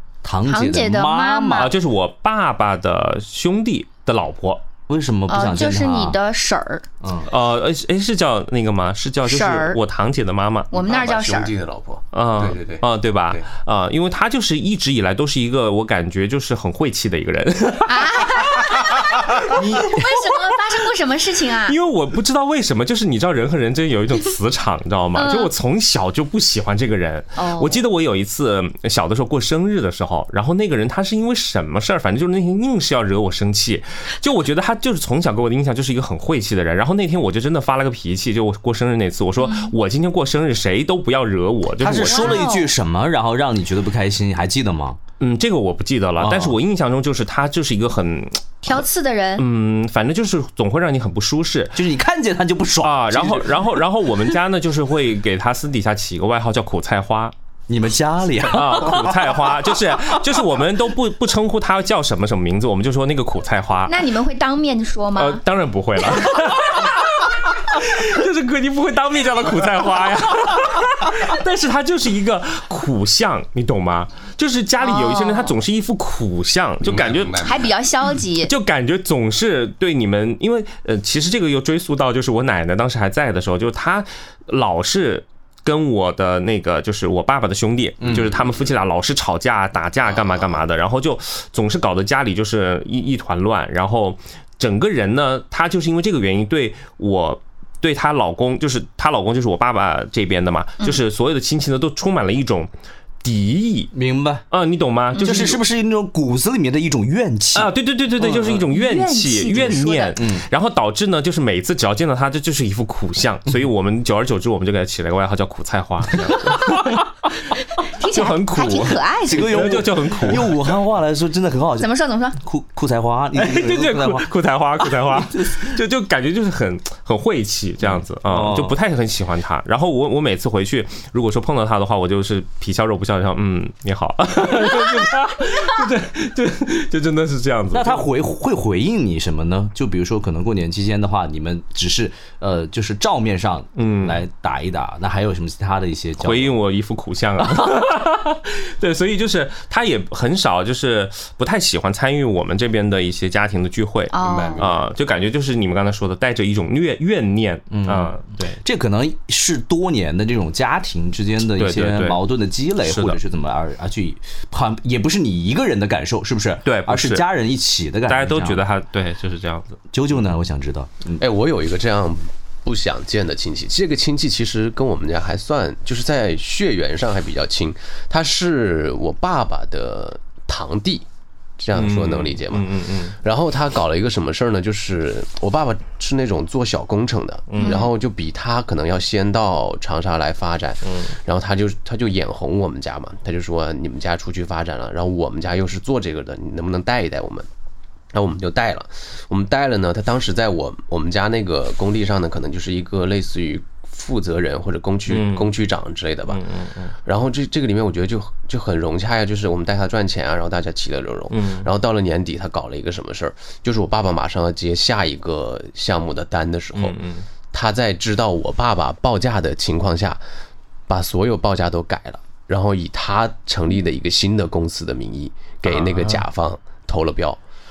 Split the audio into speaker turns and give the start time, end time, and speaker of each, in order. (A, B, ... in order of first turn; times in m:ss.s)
0:00.2-0:01.7 A
0:00.5-0:01.7 B
0:01.6-0:04.6 C
0:04.9-0:06.2 A
0:05.3-0:06.8 B
0:07.3-0:10.7 C
0:09.2-0:09.8 B
0:10.7-0:11.5 B
0:10.8-0:13.4 D
0:12.1-0:19.3 C
0:17.9-0:21.8 B
0:19.5-0:20.1 A
0:21.6-0:42.5 C
0:25.1-0:25.5 B
0:27.4-0:27.8 B
0:39.4-0:39.7 B
0:41.8-0:45.0 A
0:42.1-0:42.7 B
0:45.2-0:48.9 C
0:46.2-0:46.6 A
0:48.6-0:49.4 B
0:49.4-0:51.8 C
0:51.8-0:53.8 A
0:52.8-0:57.3 C
0:57.7-1:00.2 A
0:58.5-1:04.1 C
1:03.9-1:05.4 B
1:05.2-1:17.6 C
1:14.8-1:15.5 B
1:16.8-1:17.7 D
1:17.4-1:18.5 B
1:18.1-1:42.7 C
1:28.0-1:28.3 A
1:30.1-1:30.6 D
1:43.2-1:43.9 C
1:43.9-1:44.4 A
1:44.5-1:45.6 C
1:45.1-1:45.6 B
1:45.2-1:47.7 A
1:47.6-1:57.1 C
1:48.2-1:48.6 A
1:48.4-1:50.2 B
1:50.2-1:50.4 A
1:57.8-1:59.8 B
1:58.0-2:00.7 C
1:59.3-2:04.3 A
2:01.8-2:02.4 B
2:03.4-2:18.1 C
2:05.3-2:05.7 A
2:08.2-2:08.8 A
2:17.7-2:26.6 A
2:23.8-2:24.2 C
2:26.2-2:38.6 C
2:34.1-2:34.6 B
2:34.1-2:34.8 D
2:37.7-2:48.6 A
2:41.6-2:42.2 C
2:42.8-2:43.2 C
2:46.6-2:47.2 C
2:48.1-2:49.8 C
2:49.9-2:51.2 A
2:51.2-3:01.1 D
3:01.6-3:17.5 D
3:01.8-3:03.2 C
3:07.5-3:07.9 C
3:07.6-3:07.9 B
3:10.9-3:11.1 C
3:18.1-3:26.4 D
3:25.1-3:25.5 C
3:26.3-3:27.0 C
3:27.0-3:37.0 D
3:31.3-3:31.7 C
3:36.8-3:37.2 C
3:37.5-3:40.2 D
3:40.9-3:47.4 D
3:45.7-3:46.2 C